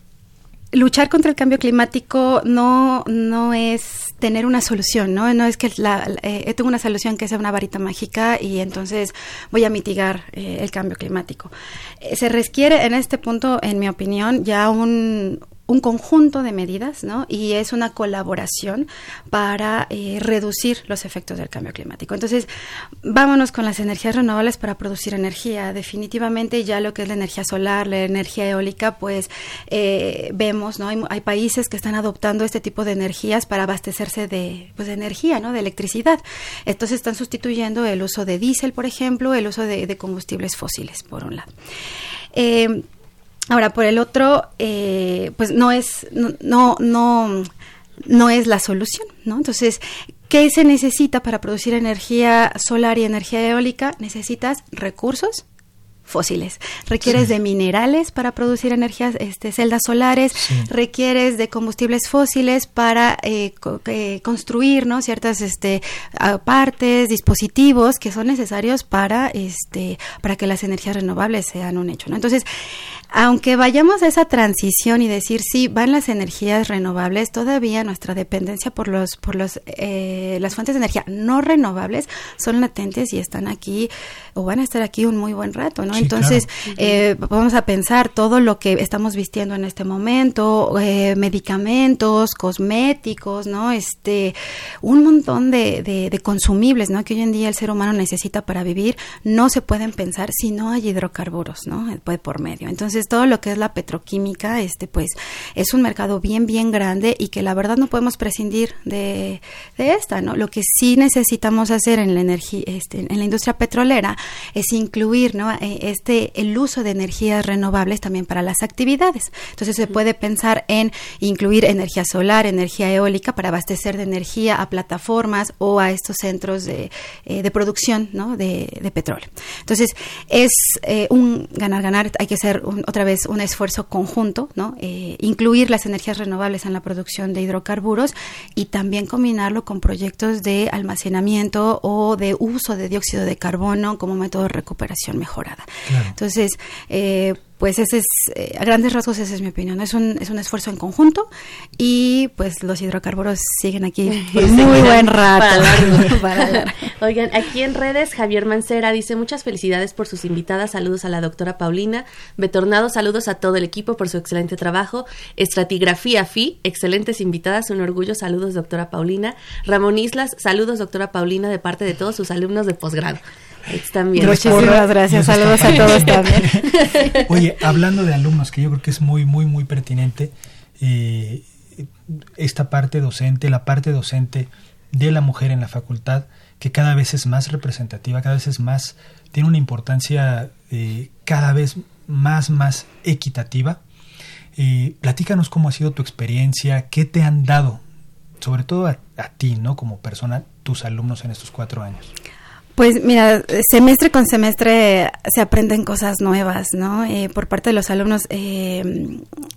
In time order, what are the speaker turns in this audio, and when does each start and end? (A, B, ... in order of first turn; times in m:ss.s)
0:00.7-0:22.5 A
0:23.0-0:41.5 A
0:42.3-0:42.8 A
0:43.5-0:47.5 A
0:48.0-0:55.4 A
0:56.1-1:12.5 A
1:00.4-1:00.7 B
1:13.1-2:36.8 A
1:25.9-1:26.5 B
2:25.9-2:26.2 B
2:34.2-2:54.8 C
2:54.2-2:57.0 A
2:54.2-3:13.8 B
2:55.6-2:57.3 C
3:14.6-3:17.8 B
3:18.4-3:22.1 B
3:22.8-3:29.2 A